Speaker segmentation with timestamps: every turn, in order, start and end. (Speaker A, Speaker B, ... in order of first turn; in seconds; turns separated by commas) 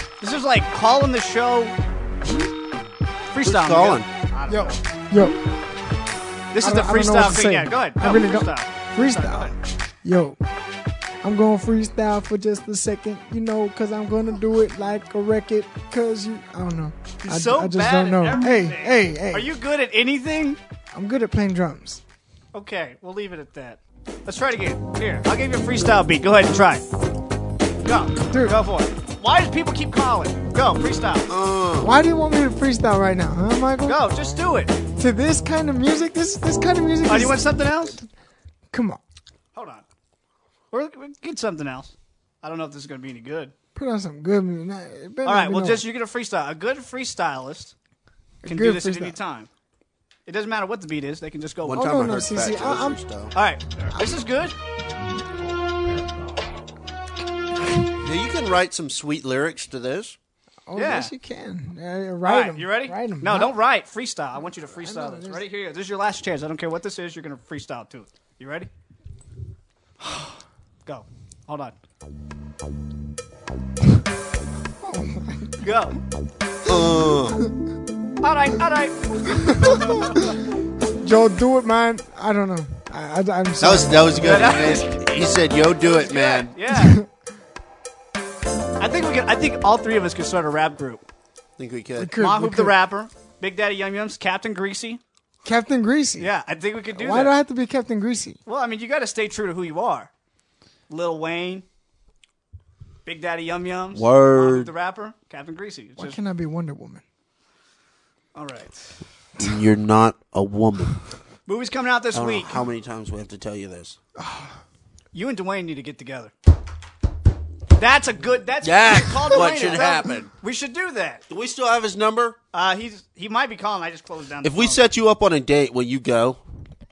Speaker A: 0.2-1.8, Speaker A: 3.3-4.8, Speaker B: 3.4-4.1, Speaker C: 4.5-5.4, Speaker A: 6.5-9.6, Speaker C: 6.6-10.4, Speaker C: 11.2-19.5, Speaker A: 17.2-20.6, Speaker C: 20.9-22.0, Speaker A: 22.5-26.8, Speaker A: 27.8-31.3, Speaker C: 28.3-28.6, Speaker B: 31.3-32.0, Speaker C: 31.8-34.1, Speaker A: 33.9-34.8, Speaker C: 35.0-38.1, Speaker A: 37.0-38.0, Speaker C: 38.7-39.0, Speaker A: 39.5-39.9, Speaker A: 40.7-43.5, Speaker C: 43.8-45.9, Speaker A: 45.2-47.7, Speaker C: 48.4-49.2, Speaker A: 48.5-49.5, Speaker A: 50.3-51.9, Speaker B: 51.6-53.4, Speaker C: 51.7-53.0, Speaker A: 53.3-54.5, Speaker C: 53.9-54.2, Speaker B: 58.0-60.2, Speaker C: 60.7-63.6, Speaker A: 60.8-61.1, Speaker A: 62.2-68.7, Speaker C: 64.6-65.4, Speaker A: 70.8-71.8, Speaker C: 74.8-75.7, Speaker A: 75.6-76.0, Speaker B: 76.7-77.4, Speaker A: 78.2-80.2, Speaker C: 79.7-80.3, Speaker C: 81.0-84.8, Speaker B: 83.6-86.6, Speaker A: 84.2-84.9, Speaker A: 85.8-87.0, Speaker C: 86.7-87.1, Speaker A: 88.8-91.0, Speaker B: 91.6-92.2, Speaker C: 92.0-92.8, Speaker A: 92.2-95.0, Speaker C: 95.4-96.3, Speaker A: 96.2-97.4, Speaker C: 96.9-98.4, Speaker A: 98.5-100.1, Speaker A: 100.9-101.7, Speaker A: 103.0-106.2, Speaker B: 103.9-104.7, Speaker C: 106.0-107.0, Speaker A: 108.3-109.0, Speaker B: 109.4-111.1, Speaker A: 111.5-112.6, Speaker B: 112.1-114.0, Speaker C: 114.2-114.5, Speaker A: 115.1-116.3, Speaker A: 117.7-121.2, Speaker B: 118.6-120.3, Speaker B: 121.3-122.4, Speaker A: 122.5-124.8, Speaker B: 124.4-126.4